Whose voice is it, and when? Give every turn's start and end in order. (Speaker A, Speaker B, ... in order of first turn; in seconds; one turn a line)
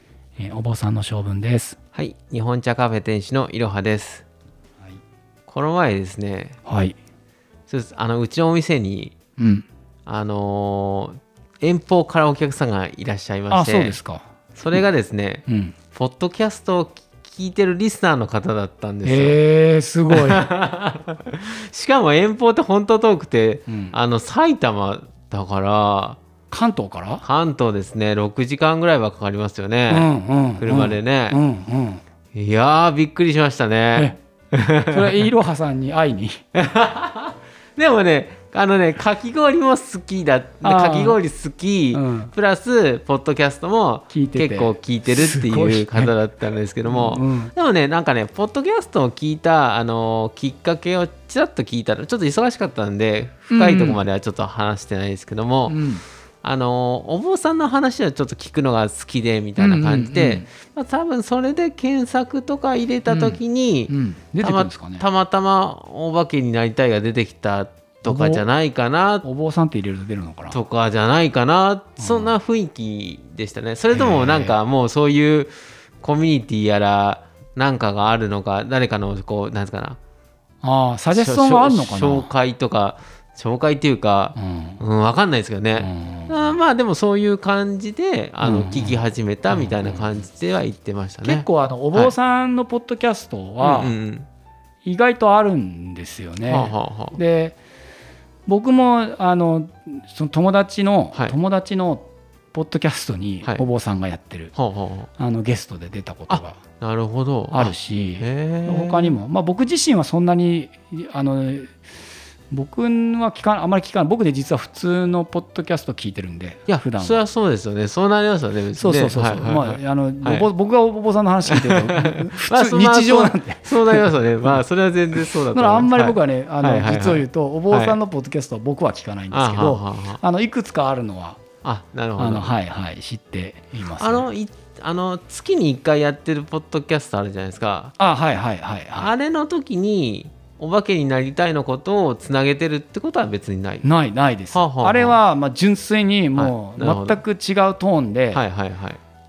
Speaker A: 0.4-1.8
Speaker B: 1.9-4.2
Speaker B: 5.5-6.6
Speaker A: 6.7-7.0
Speaker B: 7.7-9.2
Speaker A: 9.4-9.7
Speaker B: 10.1-14.0
Speaker A: 13.5-14.9
Speaker B: 14.6-19.4
Speaker A: 15.5-15.8
Speaker A: 19.0-20.4
Speaker B: 20.1-26.2
Speaker A: 23.7-24.0
Speaker A: 26.5-27.2
Speaker B: 27.2-31.4
Speaker A: 29.9-32.0
Speaker B: 32.3-35.2
Speaker A: 34.9-36.4
Speaker B: 36.5-55.8
Speaker A: 40.6-41.2
Speaker A: 41.9-42.3
Speaker A: 44.1-46.1
Speaker A: 46.9-47.5
Speaker A: 53.5-54.0
Speaker A: 55.7-56.0
Speaker B: 56.4-69.2
Speaker A: 59.6-60.5
Speaker A: 63.1-65.1
Speaker A: 68.0-68.5
Speaker A: 69.2-70.6
Speaker B: 70.5-80.0
Speaker A: 72.0-72.3
Speaker A: 73.9-74.6
Speaker A: 80.6-82.3
Speaker B: 81.1-92.1
Speaker A: 84.4-84.8
Speaker A: 85.8-86.5
Speaker A: 88.4-90.1
Speaker A: 91.2-93.9
Speaker B: 93.6-94.3
Speaker A: 94.8-97.6
Speaker B: 96.5-97.2
Speaker A: 98.5-104.5
Speaker B: 104.6-105.1
Speaker A: 105.2-106.6
Speaker B: 106.3-109.2
Speaker A: 107.5-111.8
Speaker A: 112.5-117.2
Speaker B: 116.7-120.5
Speaker A: 118.8-124.6
Speaker B: 121.5-128.0
Speaker A: 125.2-131.4
Speaker B: 129.3-130.2
Speaker B: 131.6-132.5
Speaker A: 132.2-134.3
Speaker B: 134.0-137.9
Speaker A: 138.0-139.1
Speaker B: 138.9-143.8
Speaker A: 143.8-148.4
Speaker B: 144.5-145.2
Speaker B: 146.3-147.2
Speaker B: 148.3-149.0